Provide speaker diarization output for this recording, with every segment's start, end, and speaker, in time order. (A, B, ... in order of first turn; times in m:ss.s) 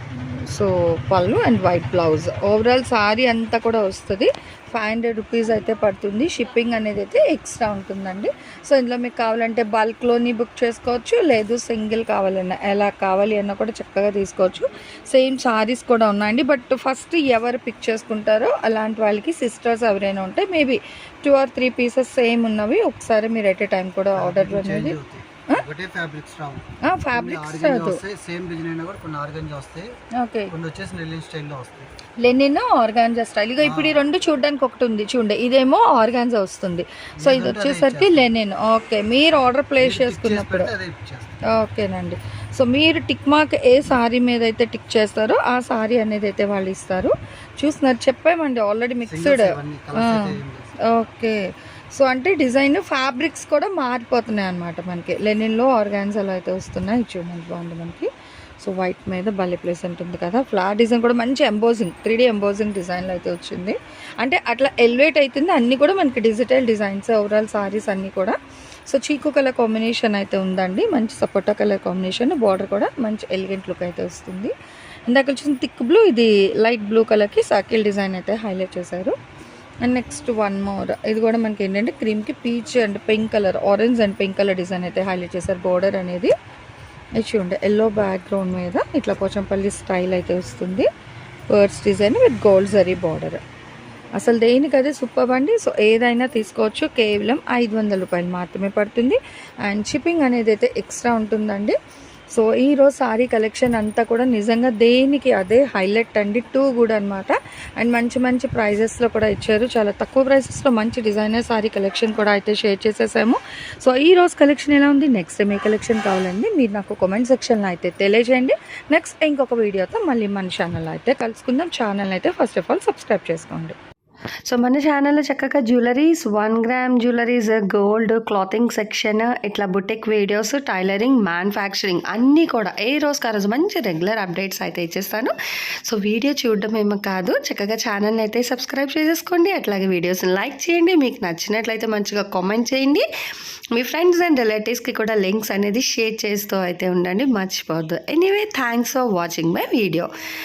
0:00.4-0:25.0 A
0:24.2-0:29.9 B
0:26.9-0:28.0 A
0:30.2-0:30.5 A
0:30.5-0:31.9 B
0:32.2-0:40.7 A
0:33.6-0:34.1 B
0:37.2-0:38.3 B
0:39.8-0:41.4 B
0:41.5-0:50.3 A
0:49.1-0:50.7 B
0:50.9-0:51.4 A
0:52.0-0:58.1 A
0:58.6-1:08.4 A
1:08.9-1:14.5 A
1:15.1-1:19.1 A
1:19.8-1:26.3 A
1:27.2-1:30.9 A
1:31.5-1:33.4 A
1:34.2-1:41.8 A
1:42.3-2:03.8 A
2:04.5-2:15.3 C
2:15.9-2:23.0 C
2:23.8-2:30.1 C